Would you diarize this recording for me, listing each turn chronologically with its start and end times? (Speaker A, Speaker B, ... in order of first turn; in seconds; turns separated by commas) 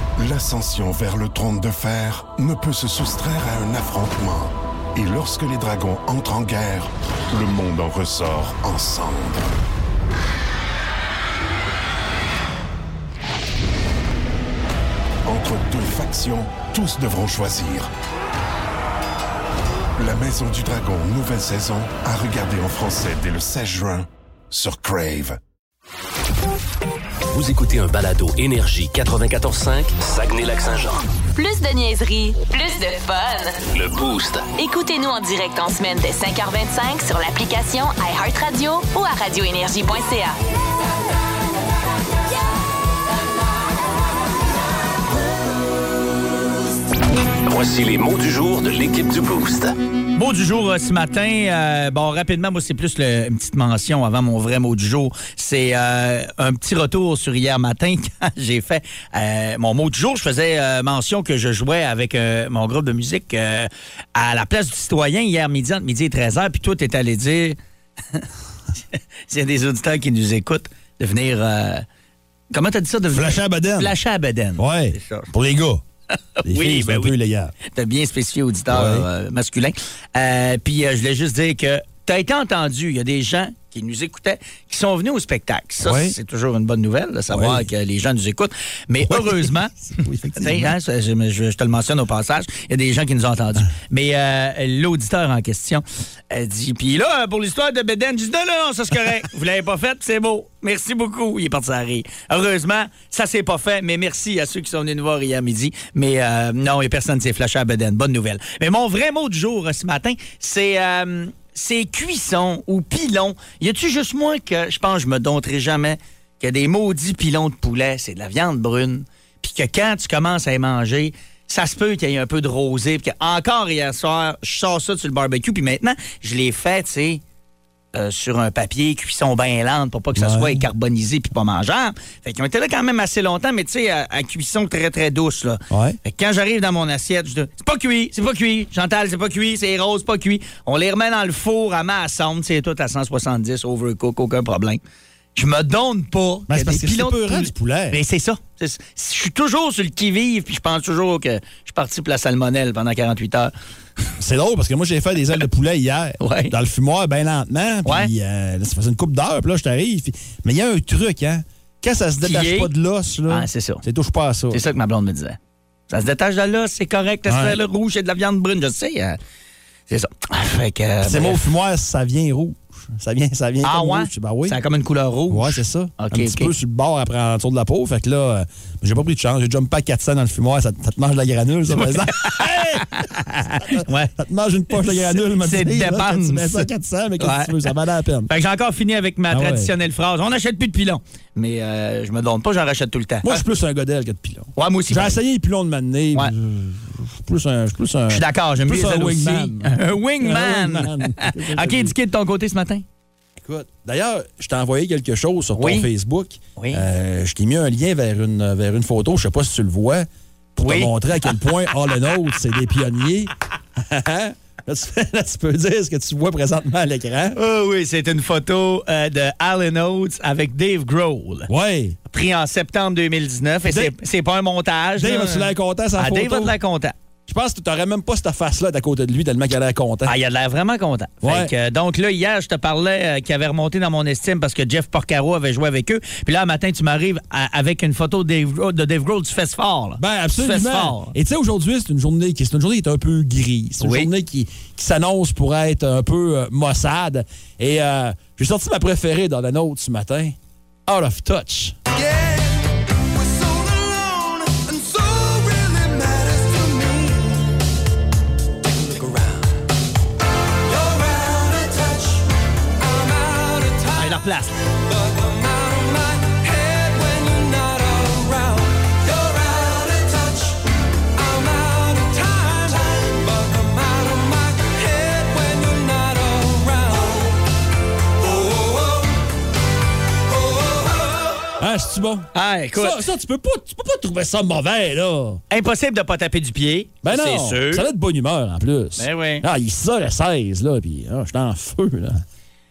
Speaker A: 0.2-9.5, Speaker A: 15.2-17.9, Speaker A: 20.0-25.4, Speaker B: 27.3-31.1, Speaker C: 31.4-33.6, Speaker B: 33.7-34.5, Speaker C: 34.6-40.4, Speaker B: 47.5-49.7, Speaker D: 50.2-67.6, Speaker D: 69.3-71.8, Speaker D: 72.5-75.3, Speaker E: 73.1-74.0, Speaker E: 74.6-75.8, Speaker D: 76.4-77.1, Speaker E: 76.5-77.5, Speaker D: 77.7-89.8, Speaker E: 78.7-79.1, Speaker E: 85.8-86.2, Speaker E: 87.3-87.7, Speaker E: 89.0-90.8, Speaker D: 90.4-127.2, Speaker D: 128.0-144.8, Speaker E: 130.2-130.6, Speaker E: 135.7-136.0, Speaker D: 145.4-153.5, Speaker E: 146.5-148.0, Speaker E: 154.2-164.6, Speaker D: 156.2-156.5, Speaker D: 157.8-158.1, Speaker D: 162.2-162.7, Speaker D: 163.3-163.8, Speaker D: 164.5-165.4, Speaker D: 165.9-169.2, Speaker E: 167.3-167.6, Speaker D: 169.9-171.4, Speaker E: 171.0-174.6, Speaker D: 173.6-176.5, Speaker E: 175.3-188.3, Speaker D: 181.7-183.1, Speaker D: 183.6-184.2, Speaker D: 184.7-187.7, Speaker D: 188.3-193.4, Speaker E: 189.3-189.7, Speaker E: 193.2-202.0, Speaker D: 194.6-195.2, Speaker D: 198.1-202.8, Speaker E: 203.4-217.4, Speaker D: 205.6-205.9, Speaker D: 206.6-206.8, Speaker D: 210.6-211.4, Speaker D: 217.3-221.5, Speaker E: 221.5-222.0, Speaker D: 222.1-226.9, Speaker E: 223.7-223.9, Speaker E: 225.0-226.6, Speaker E: 227.3-230.2, Speaker D: 230.1-241.1, Speaker E: 231.2-231.5, Speaker E: 240.0-250.4, Speaker D: 243.8-244.1, Speaker E: 250.9-251.8, Speaker F: 251.9-257.6, Speaker F: 258.6-259.6, Speaker F: 260.7-262.3, Speaker F: 262.8-264.2, Speaker D: 263.9-264.6, Speaker F: 264.9-277.4, Speaker F: 278.2-279.2, Speaker F: 280.3-281.5, Speaker E: 281.6-285.4, Speaker D: 282.3-283.0, Speaker D: 285.5-287.9, Speaker E: 287.0-292.2, Speaker D: 289.0-289.5